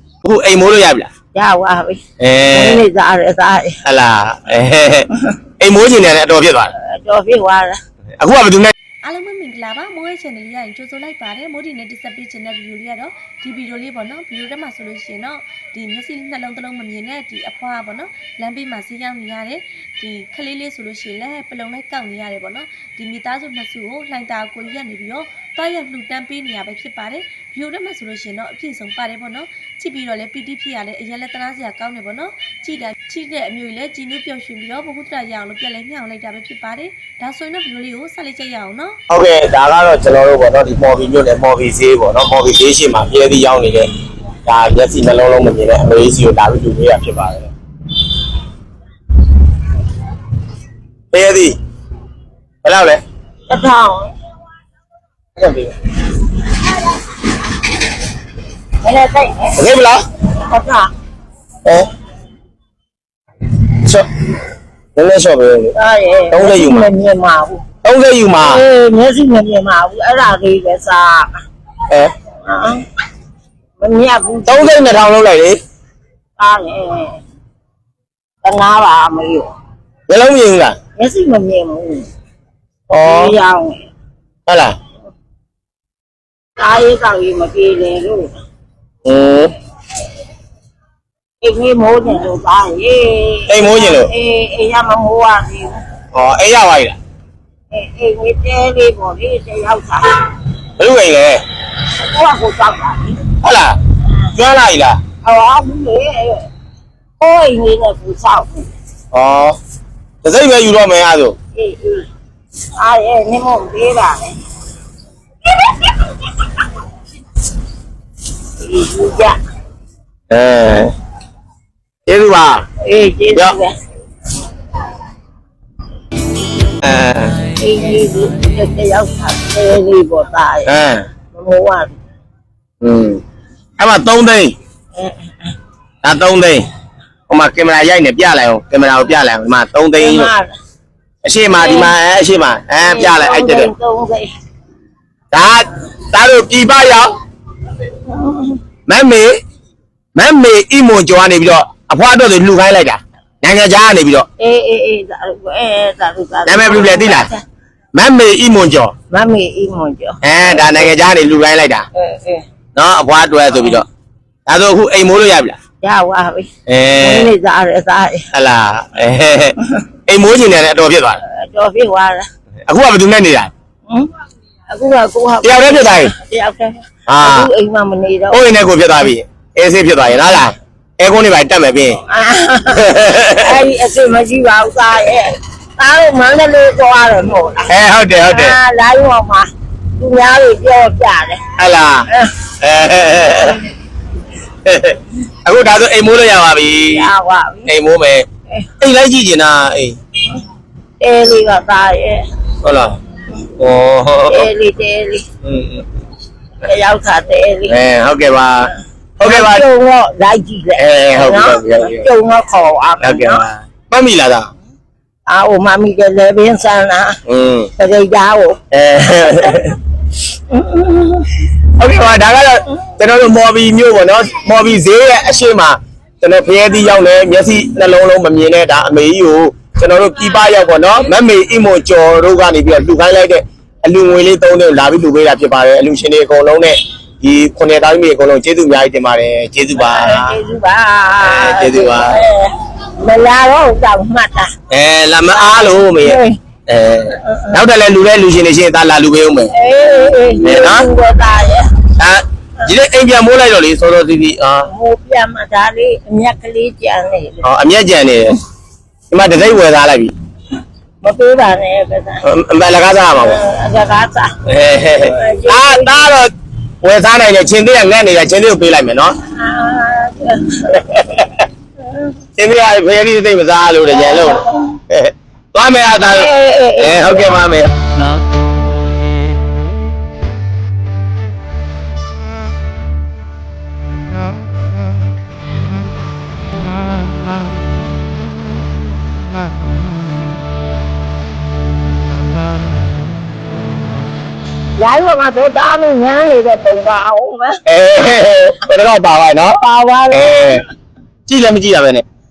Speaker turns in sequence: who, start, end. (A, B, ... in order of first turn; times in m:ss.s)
0:00.2-0:01.1 A
0:01.3-0:02.0 B
0:02.2-0:02.8 A
0:02.5-0:03.8 B
0:03.8-0:06.7 A
0:06.8-0:07.8 B
0:08.2-0:08.7 A
0:09.0-0:39.0 C
0:39.1-0:43.9 A
0:44.5-0:47.5 A
0:51.1-0:51.6 A
0:52.6-0:53.0 A
0:53.5-0:54.1 B
0:55.4-0:55.7 A
0:58.8-0:59.5 B
0:59.6-1:00.0 A
1:00.4-1:00.9 B
1:03.8-1:04.1 A
1:05.0-1:05.8 A
1:05.8-1:07.6 B
1:06.3-1:06.9 A
1:07.8-1:08.6 A
1:08.4-1:11.3 B
1:12.4-1:12.8 B
1:13.8-1:15.0 B
1:14.5-1:15.6 A
1:16.4-1:17.2 B
1:18.4-1:19.5 B
1:20.1-1:20.8 A
1:21.0-1:22.1 B
1:22.9-1:23.4 A
1:23.0-1:23.9 B
1:24.5-1:24.8 A
1:26.6-1:28.3 B
1:29.0-1:29.5 A
1:31.4-1:35.8 B
1:33.5-1:34.1 A
1:36.1-1:37.0 A
1:37.7-1:40.2 B
1:40.8-1:41.4 A
1:42.0-1:43.2 B
1:43.4-1:43.8 A
1:44.3-1:45.0 A
1:45.2-1:46.5 B
1:47.2-1:48.7 B
1:49.1-1:49.6 A
1:50.2-1:51.4 A
1:51.6-1:52.1 B
1:52.8-1:54.4 B
1:58.6-1:59.4 B
2:00.3-2:00.9 A
2:02.1-2:02.6 A
2:02.8-2:03.8 B
2:06.8-2:07.4 A
2:07.6-2:10.7 B
2:10.7-2:11.1 A
2:11.3-2:12.0 B
2:12.8-2:13.2 A
2:13.8-2:14.6 A
2:15.0-2:15.6 B
2:16.0-2:16.7 A
2:17.3-2:20.3 A
2:20.0-2:20.5 B
2:21.2-2:23.7 A
2:21.5-2:21.9 B
2:22.8-2:24.3 B
2:25.3-2:27.2 A
2:28.1-2:28.6 B
2:28.9-2:29.4 A
2:30.2-2:34.3 A
2:34.4-2:37.4 B
2:36.5-2:37.3 A
2:37.9-2:38.9 A
2:39.1-2:40.8 B
2:40.2-2:41.9 A
2:41.9-2:42.4 B
2:42.8-2:43.9 A
2:44.5-2:45.6 A
2:45.8-2:46.5 B
2:46.7-2:47.3 A
2:47.0-2:48.3 B
2:48.3-2:51.2 A
2:51.3-2:52.3 B
2:52.7-2:53.5 A
2:54.7-2:58.4 B
2:55.4-2:56.2 A
2:57.1-2:57.5 A
2:58.3-3:02.0 A
3:02.1-3:07.7 B
3:02.7-3:03.6 A
3:07.7-3:08.6 A
3:08.2-3:11.4 B
3:11.6-3:13.6 A
3:14.6-3:17.1 A
3:16.9-3:17.7 B
3:17.7-3:18.3 A
3:18.8-3:20.0 A
3:21.0-3:22.3 B
3:22.6-3:23.0 A
3:23.6-3:24.5 A
3:24.3-3:25.3 B
3:25.4-3:25.8 A
3:26.6-3:27.8 B
3:27.7-3:29.7 A
3:29.2-3:33.4 B
3:30.8-3:32.1 A
3:33.0-3:34.5 A
3:35.3-3:37.2 B
3:37.3-3:37.7 A
3:37.8-3:38.6 B
3:38.7-3:39.8 A
3:40.5-3:41.4 B
3:41.8-4:00.4 A
3:59.8-4:04.5 B
4:01.2-4:02.2 A
4:04.7-4:09.5 A
4:05.3-4:06.4 B
4:07.2-4:07.5 B
4:09.5-4:11.7 B
4:10.4-4:10.9 A
4:12.0-4:14.7 A
4:14.7-4:17.4 B
4:17.4-4:18.4 A
4:19.1-4:20.1 A
4:21.0-4:22.2 B
4:22.2-4:23.4 A
4:23.2-4:24.4 B
4:24.5-4:29.2 A
4:25.0-4:26.1 B
4:29.3-4:31.0 B
4:31.8-4:32.1 B
4:32.4-4:37.7 A
4:36.1-4:37.3 B
4:54.8-4:57.6 B
4:57.7-5:00.6 A
4:59.6-5:00.6 B
5:01.3-5:02.0 A